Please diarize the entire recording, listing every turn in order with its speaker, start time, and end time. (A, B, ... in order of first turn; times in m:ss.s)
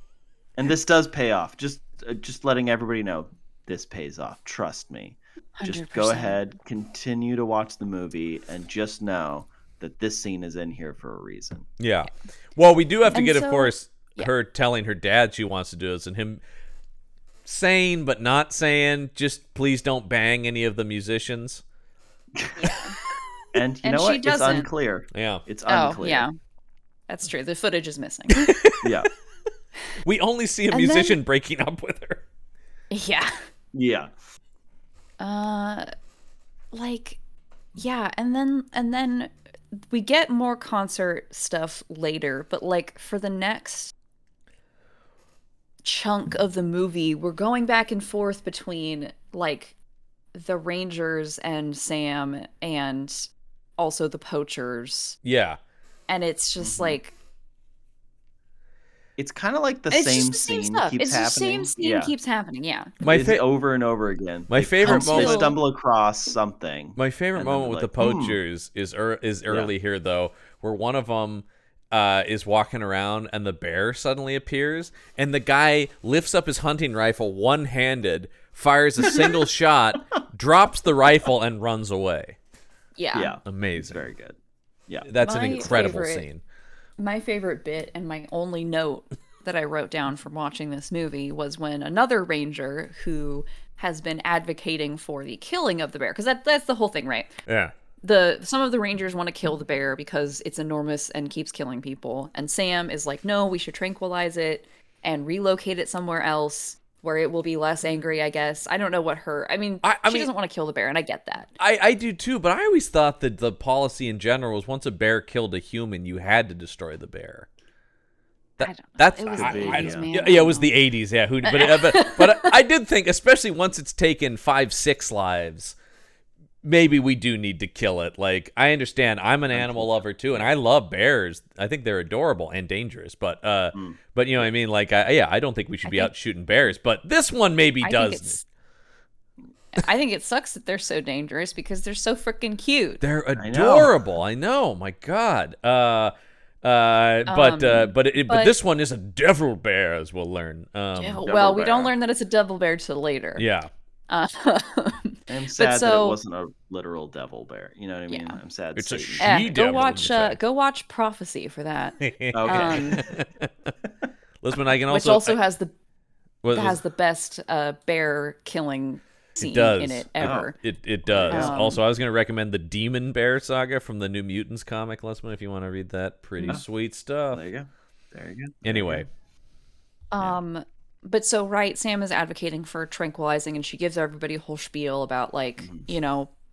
0:00.6-0:11.7 A
0:05.6-0:06.4 B
0:11.8-0:16.4 C
0:13.1-0:14.3 B
0:17.4-0:21.6 C
0:22.6-0:23.0 B
0:23.5-0:26.2 A
0:23.8-0:24.7 B
0:25.1-0:25.4 C
0:25.7-0:26.3 B
0:27.1-0:28.5 B
0:28.3-0:29.0 C
0:28.8-0:29.1 A
0:30.0-0:32.2 C
0:30.7-0:31.2 B
0:32.9-0:33.4 B
0:33.7-0:34.1 A
0:35.2-0:35.9 B
0:36.7-0:37.2 B
0:37.8-0:43.9 B
0:45.8-0:49.8 B
0:50.3-0:55.2 B
0:55.2-0:55.6 C
0:56.1-0:57.1 B
0:56.6-0:57.0 A
0:59.2-1:02.1 A
0:59.9-1:02.9 B
1:03.0-1:03.4 C
1:03.0-1:08.4 A
1:04.5-1:05.4 C
1:04.8-1:05.6 B
1:07.0-1:22.4 C
1:19.0-1:19.4 A
1:23.0-1:23.3 B
1:23.1-1:24.4 A
1:23.4-1:24.0 C
1:25.0-1:26.4 C
1:25.2-1:26.2 B
1:27.0-1:37.3 B
1:37.5-1:37.7 C
1:38.0-1:51.5 B
1:49.8-1:50.3 C
1:51.6-1:57.5 C
1:58.6-2:05.8 C
1:58.6-2:00.7 B
1:59.3-2:00.1 A
2:01.4-2:02.5 B
2:06.6-2:18.4 C
2:09.5-2:10.5 A
2:13.7-2:14.5 A
2:15.8-2:16.1 B
2:17.8-2:18.4 B
2:19.7-2:23.0 B
2:23.0-2:31.2 C
2:23.4-2:23.9 A
2:27.3-2:28.6 B
2:31.0-2:33.4 B
2:31.2-2:31.9 A
2:33.4-2:33.7 C
2:34.1-2:36.2 B
2:35.3-2:39.4 A
2:38.1-2:38.4 B
2:38.8-2:40.4 C
2:39.2-2:43.0 B
2:42.0-2:43.7 C
2:42.3-2:43.1 A
2:44.4-2:45.4 C
2:44.9-2:45.7 B
2:46.4-2:46.8 C
2:46.5-2:50.6 B
2:49.4-2:57.4 C
2:50.2-2:50.5 A
2:51.0-2:51.7 A
2:51.3-2:51.8 B
2:57.3-2:59.0 A
2:58.6-2:59.1 C
3:00.1-3:06.3 B